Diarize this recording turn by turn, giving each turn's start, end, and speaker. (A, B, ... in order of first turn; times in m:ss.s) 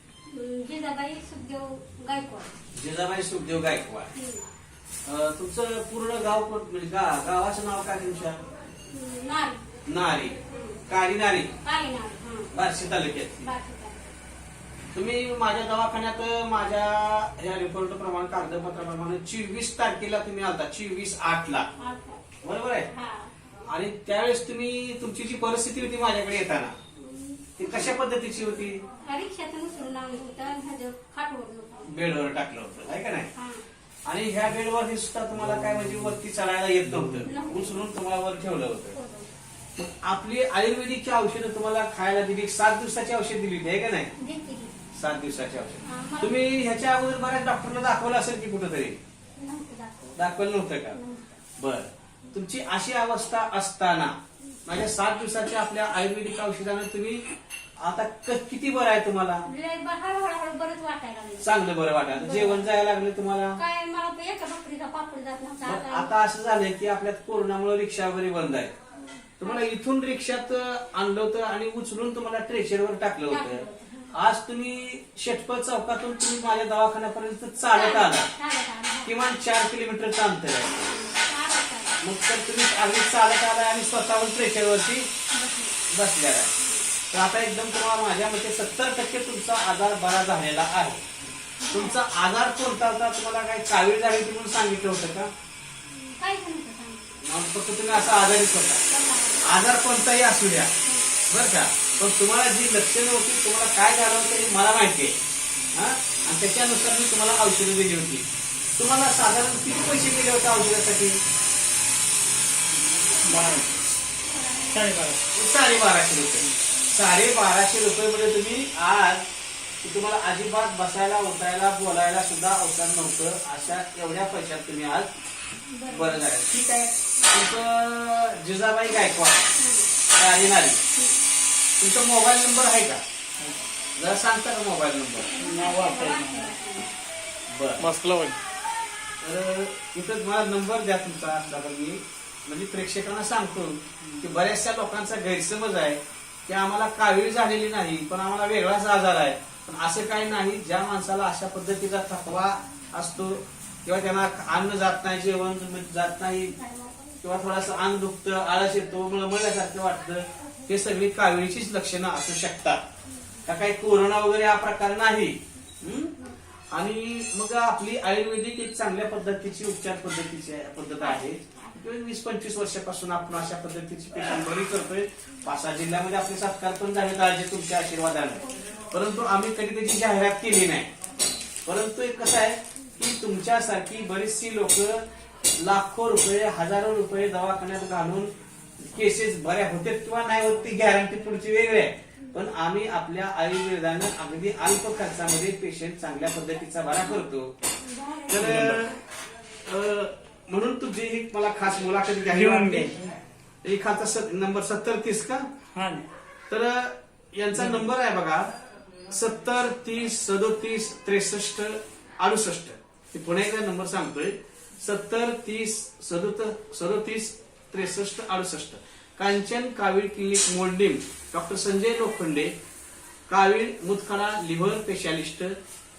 0:00.3-0:02.6 A
0:02.7-0:04.1 B
0:04.1-0:04.5 A
0:05.0-0:08.4 B
0:08.9-0:09.6 A
0:09.9-0:11.5 B
0:10.4-0:10.8 A
0:11.6-0:12.5 A
0:12.5-0:13.4 B
0:13.4-0:14.1 A
0:14.9-0:21.7 B
0:21.8-0:22.3 A
0:22.4-0:22.9 B
0:22.9-0:23.3 A
0:23.7-0:26.8 B
0:27.0-0:27.4 A
0:27.6-0:28.8 B
0:29.0-0:31.9 A
0:31.9-0:33.3 B
0:33.3-0:33.6 A
0:34.0-0:39.0 B
0:37.3-0:37.9 A
0:38.9-0:39.3 A
0:39.8-0:44.1 B
0:44.2-0:44.7 A
0:44.9-0:49.0 B
0:45.8-0:46.4 A
0:49.4-0:50.4 A
0:50.2-0:51.0 B
0:50.9-0:51.4 A
0:51.6-0:57.2 B
0:57.8-0:59.4 B
0:59.4-1:01.5 A
1:01.4-1:03.6 B
1:02.1-1:02.7 A
1:03.6-1:06.1 A
1:05.6-1:08.7 B
1:09.4-1:18.3 B
1:13.3-1:14.1 A
1:17.7-1:19.2 A
1:19.0-1:20.9 B
1:20.9-1:22.0 A
1:22.0-1:25.1 B
1:25.3-1:25.8 A
1:25.9-1:26.5 B
1:26.6-1:26.9 A
1:27.1-1:31.1 B
1:31.6-1:32.0 A
1:31.7-1:35.3 B
1:35.9-1:37.2 A
1:37.2-1:38.8 B
1:38.9-1:39.5 A
1:39.4-1:40.7 B
1:40.8-1:41.1 A
1:41.3-1:45.2 B
1:45.7-1:48.2 B
1:48.8-1:51.2 B
1:53.1-1:54.9 A
1:53.2-1:53.7 C
1:54.7-1:55.2 C
1:55.3-1:59.2 B
1:59.8-2:05.1 B
2:05.7-2:06.2 A
2:05.9-2:09.5 B
2:09.6-2:09.9 A
2:10.1-2:10.8 B
2:11.8-2:13.0 B
2:14.0-2:15.3 B
2:15.3-2:16.9 A
2:15.4-2:16.6 C
2:17.5-2:17.8 B
2:17.8-2:18.4 C
2:19.2-2:36.5 B
2:36.5-2:37.2 A
2:37.2-2:42.8 B
2:40.3-2:40.8 A
2:43.1-2:43.4 A
2:43.5-2:46.1 B
2:46.7-3:00.9 B
2:51.0-2:51.8 A
2:58.4-2:58.7 A
3:01.7-3:05.0 B
3:05.6-3:17.5 B
3:17.8-3:18.6 A
3:18.3-3:19.0 B
3:18.3-3:18.8 C
3:19.7-3:22.9 B
3:22.3-3:23.1 C
3:23.6-3:25.5 B
3:25.7-3:26.1 C
3:26.5-3:28.5 B
3:27.6-3:27.8 C
3:29.1-3:42.5 B
3:43.3-3:45.6 B